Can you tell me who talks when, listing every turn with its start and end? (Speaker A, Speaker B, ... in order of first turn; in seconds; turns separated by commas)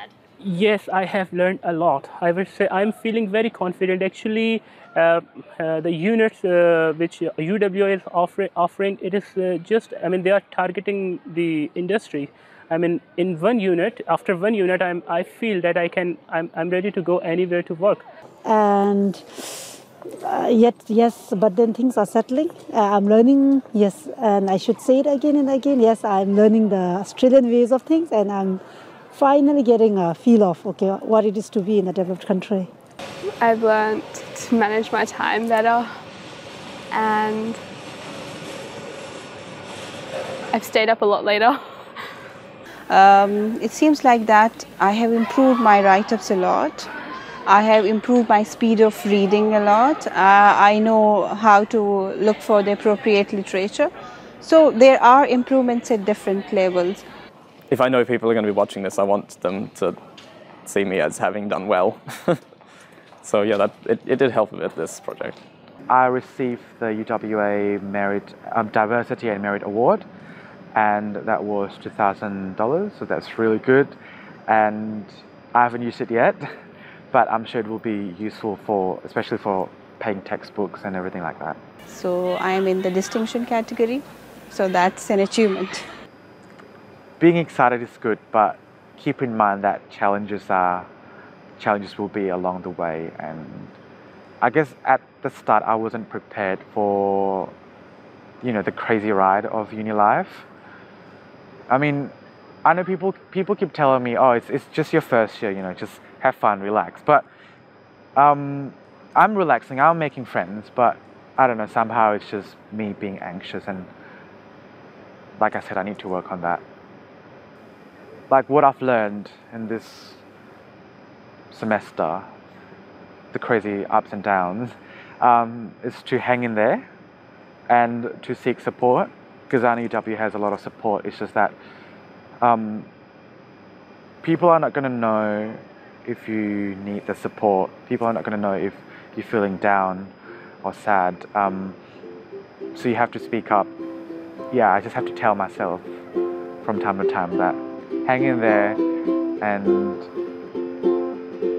Speaker A: 0.4-18.1, Speaker B: 18.4-28.6, Speaker B: 29.1-32.7, Speaker C: 33.4-35.9, Speaker C: 36.9-37.6, Speaker C: 40.5-41.9, Speaker D: 42.9-46.9, Speaker D: 47.5-57.0, Speaker E: 57.7-60.0, Speaker E: 60.6-62.4, Speaker E: 63.2-65.4, Speaker F: 65.9-70.0, Speaker F: 70.8-74.0, Speaker F: 74.5-76.5, Speaker F: 77.1-81.6, Speaker D: 81.9-85.8, Speaker F: 87.2-90.9, Speaker F: 91.6-93.7, Speaker F: 94.4-97.5, Speaker F: 98.4-100.5, Speaker F: 101.7-102.1, Speaker F: 102.7-107.3, Speaker F: 108.2-113.9, Speaker F: 115.4-116.6, Speaker F: 118.3-120.2, Speaker F: 121.5-122.3, Speaker F: 123.3-126.9, Speaker F: 127.7-131.6, Speaker F: 132.4-132.9, Speaker F: 134.2-140.1, Speaker F: 140.6-141.8, Speaker F: 142.7-143.7, Speaker F: 144.5-145.9, Speaker F: 146.6-148.8, Speaker F: 149.4-150.1